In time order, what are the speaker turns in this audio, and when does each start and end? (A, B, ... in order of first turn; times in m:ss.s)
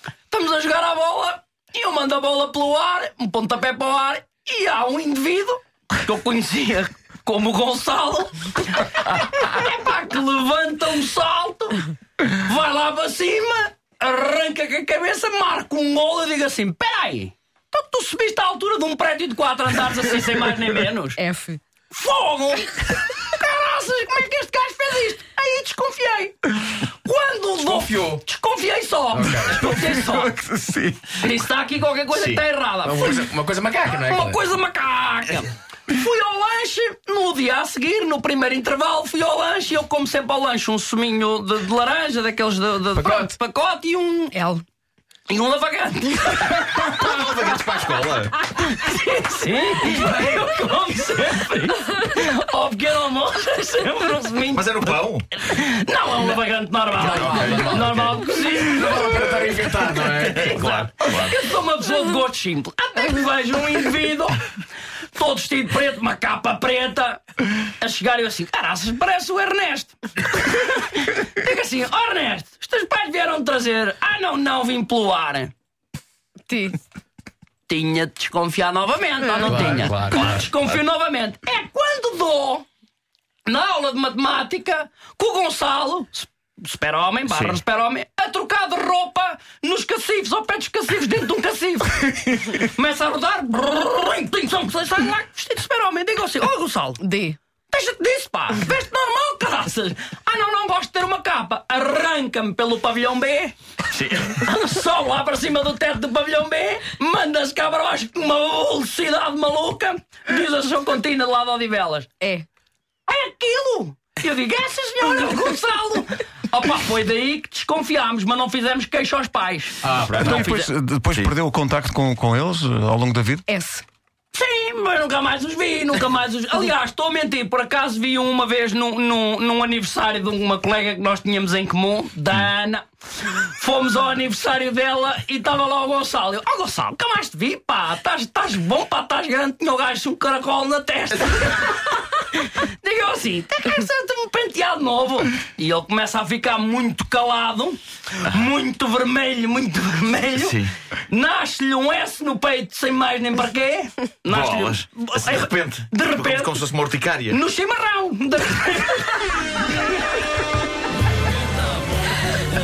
0:00.3-0:21.2 A
0:21.2-0:21.6 B
0:21.9-0:30.3 A
0:27.7-0:28.2 C
0:29.1-0:29.7 C
0:29.6-0:31.2 D
0:31.2-0:33.2 A
0:32.1-0:34.4 C
0:33.9-0:44.4 A
0:43.0-0:43.3 C
0:44.3-0:44.6 B
0:45.3-0:47.2 A
0:46.7-0:48.4 E
0:48.5-1:04.4 A
0:54.5-0:55.3 E
0:57.0-1:00.5 C
0:57.0-0:58.1 E
1:00.4-1:01.4 E
1:05.1-1:15.5 A
1:16.5-1:16.8 B
1:17.7-1:22.6 A
1:19.4-1:20.6 C
1:23.4-1:37.0 A
1:27.3-1:27.6 E
1:37.0-1:37.4 B
1:37.7-1:43.5 A
1:43.9-1:44.3 E
1:44.2-1:52.2 A
1:53.1-2:00.7 A
1:59.8-2:00.4 C
2:00.2-2:03.4 D
2:03.5-2:03.8 B
2:04.3-2:30.6 A
2:30.3-2:30.7 E
2:31.1-2:36.6 A
2:34.3-2:37.4 E
2:37.3-2:40.0 A